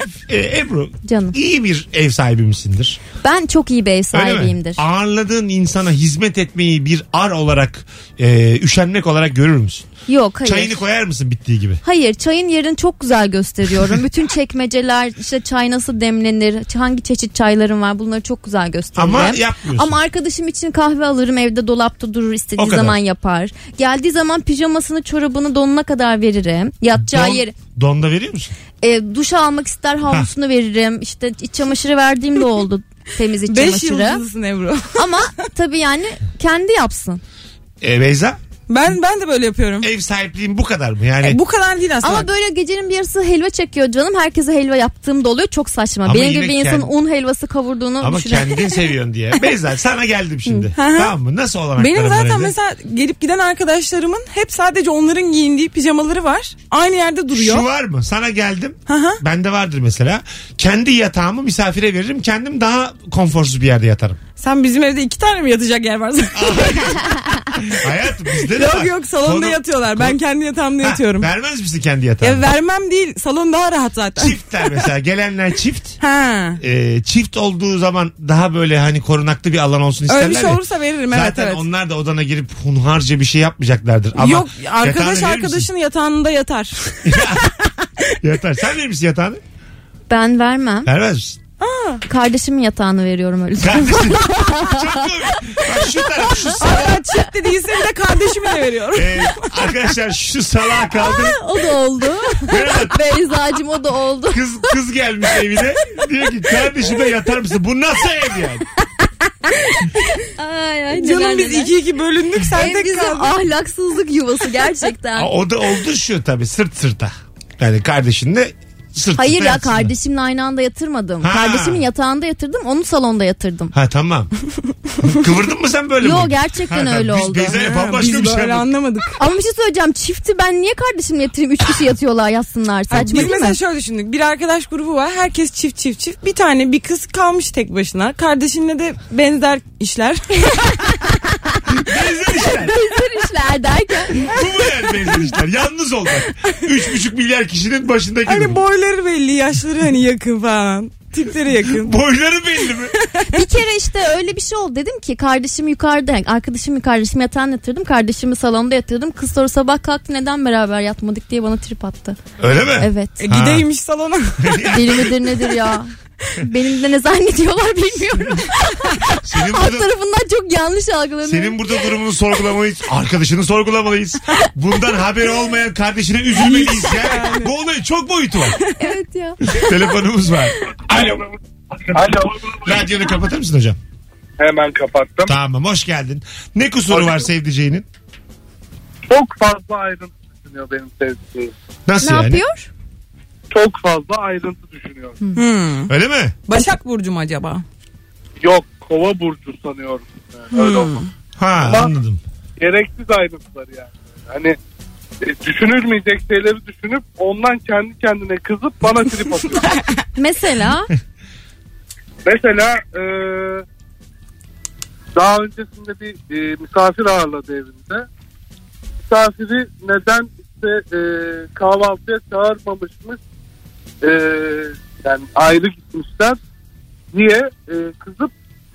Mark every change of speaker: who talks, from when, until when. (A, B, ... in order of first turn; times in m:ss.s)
0:00.3-0:03.0 A
0:01.0-0:01.3 B
0:03.2-0:04.8 B
0:04.1-0:09.8 A
0:10.1-0:10.8 B
0:10.4-0:11.8 A
0:11.8-0:27.5 B
0:19.0-0:20.0 A
0:22.6-0:23.0 A
0:27.0-0:28.5 A
0:28.8-0:34.2 B
0:33.5-0:35.0 C
0:34.9-0:37.2 B
0:37.8-0:38.4 A
0:38.7-0:39.9 C
0:39.8-0:41.4 A
0:41.2-0:42.3 C
0:42.0-0:48.7 B
0:46.0-0:46.9 A
0:48.0-0:52.5 A
0:50.8-0:51.1 C
0:51.8-0:57.6 C
0:57.3-1:04.2 A
0:58.9-0:59.2 C
1:04.4-1:07.4 C
1:06.3-1:10.2 A
1:08.5-1:11.3 C
1:10.8-1:12.4 A
1:12.2-1:14.4 C
1:14.2-1:16.0 A
1:16.0-1:16.6 C
1:16.6-1:25.7 A
1:20.1-1:21.6 C
1:24.2-1:27.5 C
1:27.0-1:27.6 A
1:28.2-1:29.4 A
1:30.1-1:30.9 B
1:30.8-1:31.4 A
1:31.6-1:32.0 C
1:32.0-1:34.8 B
1:33.6-1:37.0 A
1:36.5-1:39.5 C
1:38.9-1:41.4 A
1:40.9-1:44.4 B
1:42.5-1:43.0 A
1:44.3-1:48.6 A
1:49.0-1:51.7 B
1:50.9-1:53.4 C
1:52.5-1:55.3 B
1:55.2-1:59.9 A
1:59.2-2:03.7 B
2:01.2-2:01.8 A
2:03.7-2:04.3 A
2:05.0-2:08.7 A
2:06.0-2:07.6 B
2:07.6-2:09.2 C
2:09.2-2:13.6 B
2:12.9-2:21.0 C
2:21.7-2:22.8 A
2:22.3-2:24.2 B
2:24.2-2:28.6 A
2:28.2-2:31.9 C
2:31.7-2:32.9 A
2:32.9-2:33.4 C
2:33.3-2:42.2 B
2:42.4-2:43.6 A
2:42.8-2:43.2 B
2:43.2-2:44.6 C
2:44.4-2:45.3 A
2:44.7-2:51.7 B
2:49.2-2:49.9 A
2:51.2-2:58.6 A
2:56.3-2:57.5 C
2:58.8-2:59.6 B
2:59.5-3:01.3 A
3:01.9-3:02.3 D
3:02.5-3:03.8 A
3:04.4-3:05.3 D
3:05.2-3:07.8 A
3:06.9-3:07.2 D
3:09.1-3:11.5 D
3:11.9-3:12.4 A
3:12.0-3:12.7 B
3:13.5-3:15.2 D
3:15.4-3:15.9 C
3:15.9-3:16.3 A
3:16.5-3:17.6 C
3:18.4-3:21.0 D
3:20.5-3:21.0 C
3:21.4-3:22.2 A
3:21.6-3:21.9 D
3:22.6-3:24.6 D
3:25.2-3:29.8 D
3:30.2-3:30.9 B
3:32.2-3:33.6 D
3:35.1-3:38.0 D
3:39.1-3:43.2 D
3:44.0-3:46.4 D
3:47.1-3:48.3 D